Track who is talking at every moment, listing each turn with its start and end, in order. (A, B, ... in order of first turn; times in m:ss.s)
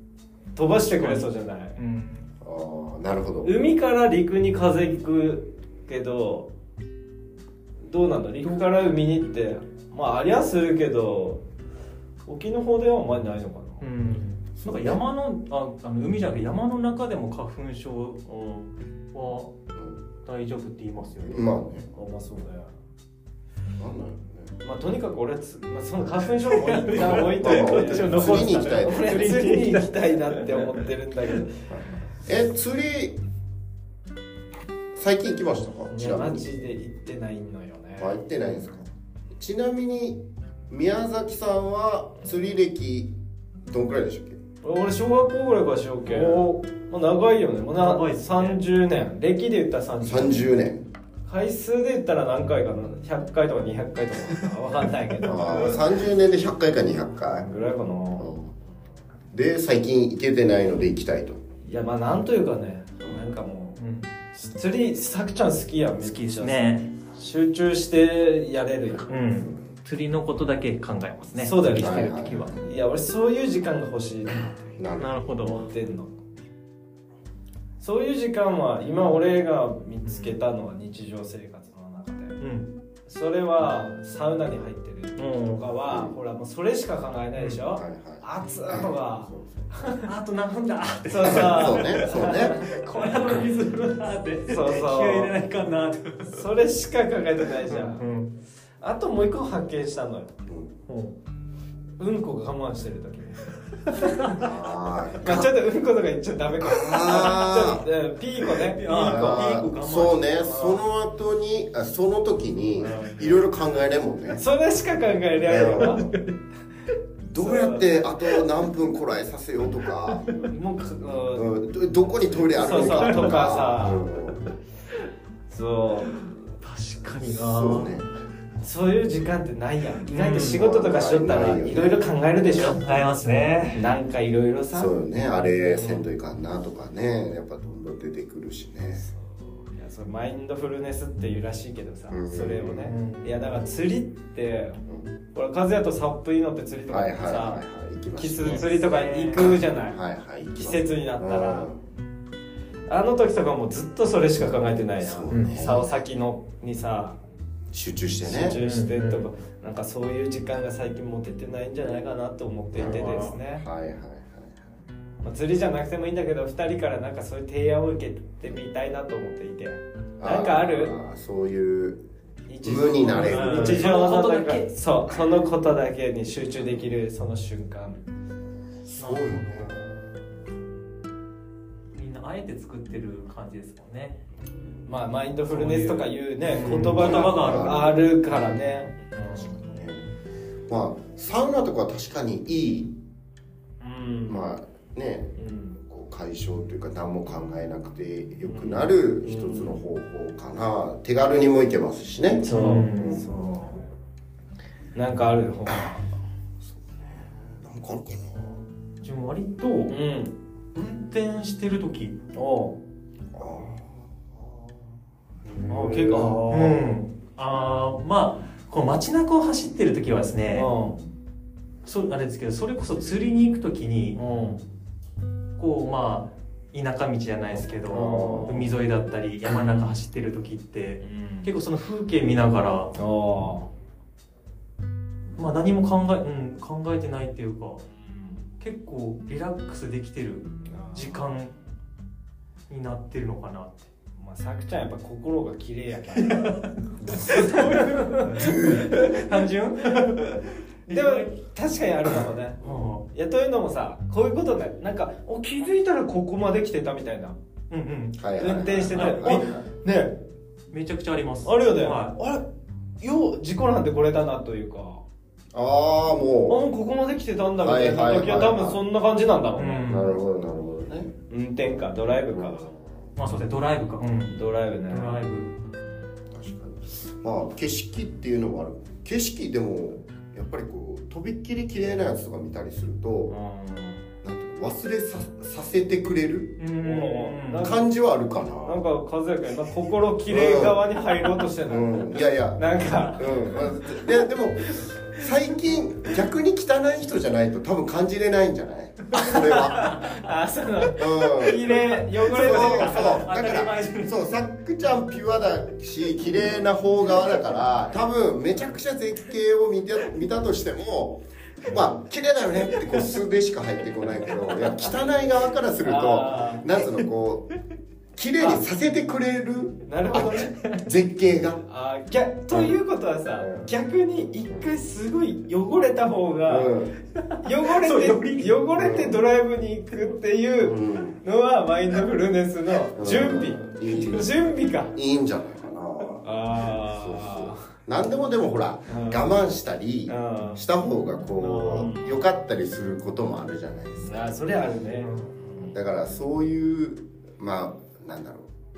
0:00.6-0:01.8 A
0:00.9-0:01.2 B
0:01.8-0:02.2 B
0:02.4-0:03.5 C
0:03.4-0:06.5 A
0:07.8-0:11.4 A
0:12.2-0:13.9 A
0:13.8-0:19.5 B
0:14.6-0:15.0 C
0:18.3-0:18.6 A
0:19.7-0:20.0 C
0:20.2-0:21.5 B
0:21.2-0:21.9 C
0:21.9-0:22.7 A
0:23.8-0:24.5 C
0:24.6-0:31.6 A
0:26.6-0:30.8 B
0:27.4-0:29.4 C
0:31.7-0:33.2 C
0:34.9-0:36.5 C
0:35.9-0:38.2 A
0:38.0-0:43.1 C
0:43.7-0:44.4 C
0:44.6-0:50.5 A
0:46.1-0:46.6 B
0:47.7-0:48.6 B
0:50.0-0:50.8 C
0:51.3-0:56.0 A
0:55.2-0:57.5 C
0:57.3-0:58.3 A
0:58.2-0:58.5 C
0:59.3-1:01.4 C
1:01.6-1:03.8 A
1:03.8-1:04.1 B
1:04.3-1:09.2 A
1:06.0-1:06.9 B
1:09.1-1:12.6 B
1:09.4-1:09.7 C
1:11.4-1:14.6 A
1:11.8-1:12.6 C
1:14.8-1:15.2 C
1:15.0-1:15.7 B
1:15.4-1:16.1 A
1:17.8-1:22.4 A
1:20.0-1:20.4 B
1:22.4-1:22.7 B
1:23.1-1:30.1 A
1:25.2-1:25.6 B
1:25.9-1:26.2 C
1:27.7-1:29.7 C
1:30.0-1:36.4 B
1:31.0-1:32.7 A
1:31.2-1:32.6 C
1:34.5-1:35.4 A
1:36.3-1:38.0 A
1:37.6-1:38.3 B
1:38.8-1:40.3 A
1:40.5-1:40.7 C
1:40.9-1:41.2 B
1:42.0-1:44.4 A
1:44.0-1:44.3 B
1:44.3-1:45.5 C
1:45.2-1:49.5 A
1:46.6-1:47.8 C
1:48.5-1:50.2 B
1:49.0-1:54.4 C
1:50.4-1:50.8 A
1:52.8-1:53.3 B
1:54.4-1:56.1 A
1:55.4-1:56.1 C
1:55.8-1:56.3 B
1:57.3-2:00.3 C
1:57.4-1:57.9 A
2:00.1-2:00.4 B
2:00.4-2:01.5 A
2:01.3-2:04.4 C
2:02.3-2:04.0 A
2:02.7-2:03.5 B
2:05.5-2:06.2 A
2:06.1-2:08.0 B
2:07.2-2:08.1 C
2:08.6-2:13.0 A
2:10.1-2:10.6 B
2:10.4-2:12.0 C
2:12.6-2:13.8 B
2:13.7-2:14.9 A
2:14.7-2:19.0 C
2:15.6-2:16.0 A
2:19.0-2:24.8 A
2:22.1-2:22.9 C
2:22.8-2:23.3 B
2:25.3-2:27.6 A
2:26.9-2:28.8 C
2:28.1-2:30.0 A
2:28.5-2:29.5 B
2:29.9-2:31.8 C
2:30.5-2:31.7 A
2:32.9-2:37.2 A
2:35.0-2:35.9 C
2:35.3-2:35.6 B
2:37.7-2:38.6 C
2:38.2-2:43.6 A
2:38.6-2:39.3 B
2:42.7-2:44.6 C
2:42.8-2:43.4 B
2:45.2-2:51.0 A
2:50.2-2:52.0 C
2:52.5-2:58.0 A
2:52.6-2:53.9 C
2:53.1-2:54.7 B
2:58.8-3:00.0 C
2:59.0-2:59.7 B
3:01.9-3:04.2 B
3:04.8-3:09.6 A
3:05.5-3:08.0 B
3:07.0-3:07.9 C
3:09.6-3:10.0 C
3:10.7-3:12.9 C
3:13.8-3:14.5 A
3:14.3-3:23.1 C
3:15.4-3:15.8 A
3:18.4-3:19.8 A
3:22.4-3:23.8 A
3:22.4-3:23.2 B
3:24.9-3:26.0 A
3:25.7-3:25.9 C
3:26.6-3:28.6 C
3:29.0-3:29.9 B
3:29.9-3:30.3 A
3:30.7-3:32.2 B
3:32.3-3:32.8 A
3:33.3-3:34.7 C
3:35.4-3:36.4 C
3:35.6-3:36.8 A
3:36.2-3:40.7 B
3:40.5-3:41.0 A
3:41.8-3:44.2 B
3:44.2-3:44.6 A
3:45.6-3:52.9 B
3:47.9-3:48.7 A
3:48.0-3:48.4 C
3:49.6-3:49.9 A
3:51.0-3:51.5 A
3:52.9-3:53.7 A
3:55.4-3:57.8 B
3:58.0-3:58.5 A
3:58.6-4:01.5 B
4:00.6-4:01.2 A
4:02.7-4:03.9 B
4:04.2-4:10.2 A
4:06.2-4:11.3 B
4:07.0-4:07.3 C
4:08.3-4:09.0 C
4:10.9-4:17.4 A
4:12.6-4:13.0 B
4:17.7-4:18.2 B
4:18.2-4:19.4 C
4:18.4-4:20.2 A
4:18.9-4:19.6 B
4:20.7-4:22.1 B
4:21.4-4:22.4 A
4:23.0-4:25.0 A
4:25.5-4:26.6 C
4:26.5-4:30.0 A
4:27.6-4:28.8 C
4:29.6-4:30.1 B
4:29.9-4:31.1 C
4:31.3-4:32.7 A
4:32.3-4:33.1 C
4:33.2-4:34.4 B
4:34.3-4:35.2 A
4:34.9-4:35.5 B
4:36.3-4:43.3 C
4:43.3-4:44.1 A
4:44.2-4:46.6 C
4:46.6-4:47.7 B
4:46.8-4:47.8 A
4:47.6-4:48.8 C
4:48.6-4:52.0 A
4:50.3-4:50.8 C
4:51.7-5:00.0 C
4:52.6-4:53.6 A
4:59.2-5:03.2 A
5:00.9-5:17.5 C
5:01.7-5:04.3 B
5:15.8-5:16.7 A
5:18.2-5:21.6 C
5:18.4-5:18.6 A
5:19.8-5:20.6 A
5:21.6-5:26.7 A
5:23.4-5:23.7 C
5:26.5-5:26.9 C
5:27.2-5:28.5 B
5:27.4-5:34.9 A
5:28.8-5:29.2 C
5:30.6-5:31.2 C
5:33.0-5:34.4 C
5:34.9-5:44.3 C
5:36.2-5:37.7 A
5:38.9-5:39.2 A
5:40.1-5:40.6 A
5:41.4-5:42.0 B
5:41.7-5:42.2 A
5:44.0-5:45.7 A
5:45.7-5:48.5 C